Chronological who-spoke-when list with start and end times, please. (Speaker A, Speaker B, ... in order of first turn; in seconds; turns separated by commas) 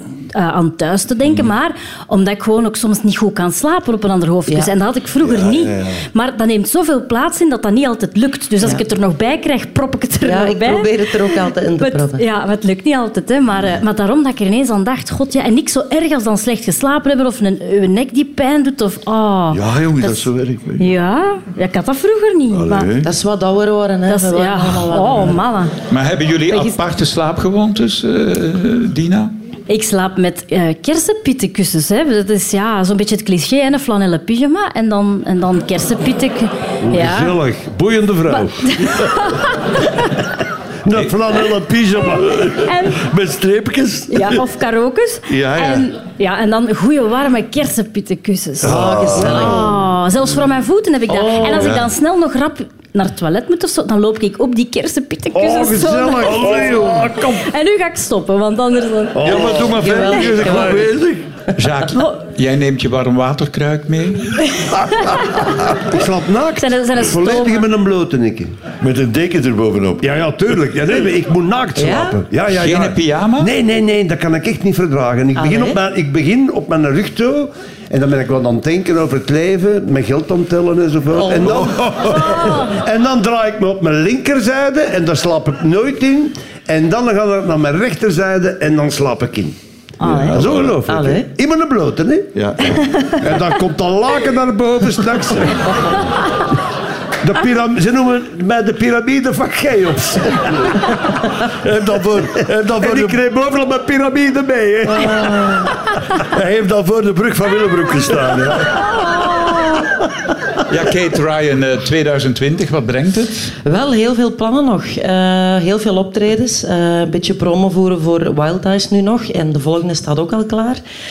Speaker A: 0.3-10.9, Speaker B: 5.2-6.0, Speaker C: 10.2-12.2, Speaker A: 11.8-22.9, Speaker B: 19.5-20.9, Speaker B: 22.5-23.1, Speaker C: 23.0-25.5, Speaker A: 24.1-25.7, Speaker D: 25.9-29.3, Speaker A: 26.5-26.8, Speaker A: 29.7-37.4, Speaker E: 36.8-39.1, Speaker A: 38.3-40.2, Speaker E: 40.9-42.5, Speaker B: 42.1-44.4, Speaker A: 42.4-43.0, Speaker A: 44.1-59.5, Speaker B: 45.3-45.9, Speaker B: 48.6-49.6, Speaker E: 48.6-49.7, Speaker C: 49.2-49.6, Speaker E: 51.1-51.8, Speaker B: 51.4-51.8, Speaker E: 55.3-57.4, Speaker B: 56.2-57.2, Speaker E: 59.1-60.9, Speaker B: 59.2-61.2, Speaker C: 59.3-60.9, Speaker D: 61.5-64.4, Speaker A: 64.9-65.5, Speaker E: 65.4-68.5, Speaker A: 66.6-67.7, Speaker B: 68.8-70.1, Speaker E: 70.0-89.6, Speaker C: 71.8-72.2, Speaker D: 72.5-73.5, Speaker C: 75.3-75.8, Speaker A: 82.1-82.8, Speaker A: 90.0-90.4, Speaker B: 90.0-90.8, Speaker E: 90.3-92.3, Speaker C: 90.9-91.3, Speaker B: 92.3-93.1, Speaker E: 93.2-95.7, Speaker E: 97.2-100.9, Speaker B: 101.5-103.2, Speaker E: 102.7-105.5, Speaker C: 104.9-105.8, Speaker B: 106.2-108.8, Speaker C: 109.1-109.9, Speaker D: 110.7-113.5, Speaker C: 113.6-120.8